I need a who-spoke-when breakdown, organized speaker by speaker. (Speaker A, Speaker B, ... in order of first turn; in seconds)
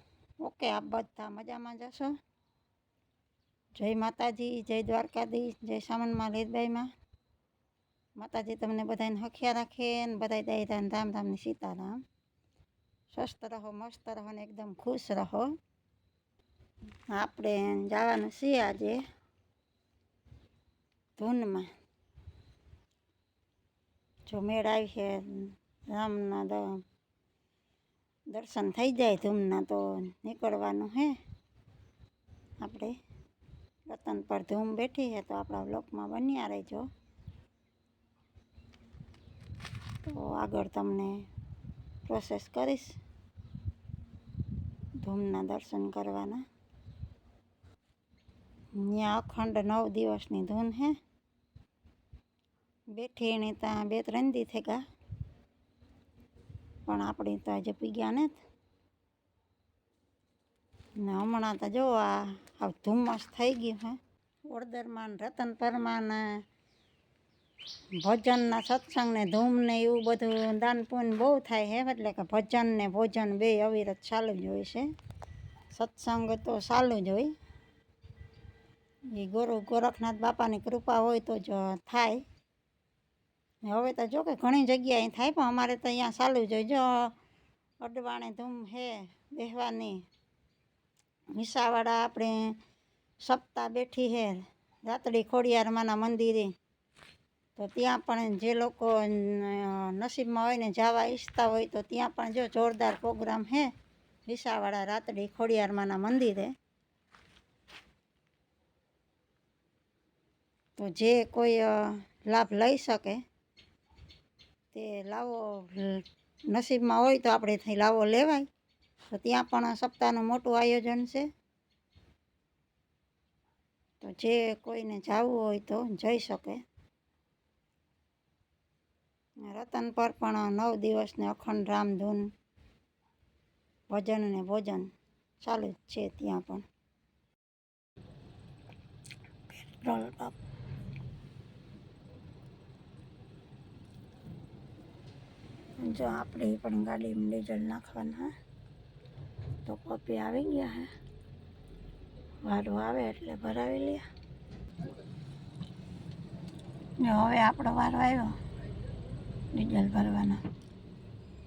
Speaker A: 0.4-2.1, 3.7-6.9, 8.2-12.0, 13.1-15.5, 17.1-19.0, 21.2-21.7, 24.2-26.8, 28.3-31.2, 32.6-33.0, 33.9-36.9, 40.0-41.3, 42.0-43.0, 45.0-46.4, 48.8-51.0, 52.9-54.8, 56.9-58.4, 61.0-64.0, 64.5-66.4, 68.0-74.9, 75.7-77.3, 79.1-82.2, 83.6-87.1, 87.8-90.0, 91.3-92.6, 93.2-96.5, 97.6-103.7, 104.2-106.5, 110.8-113.2, 114.7-118.5, 119.1-121.3, 124.0-126.6, 129.4-132.3, 133.9-134.9, 135.4-136.7, 139.5-140.3, 145.8-148.3, 149.7-150.9, 152.4-154.0, 157.0-158.4, 159.5-160.4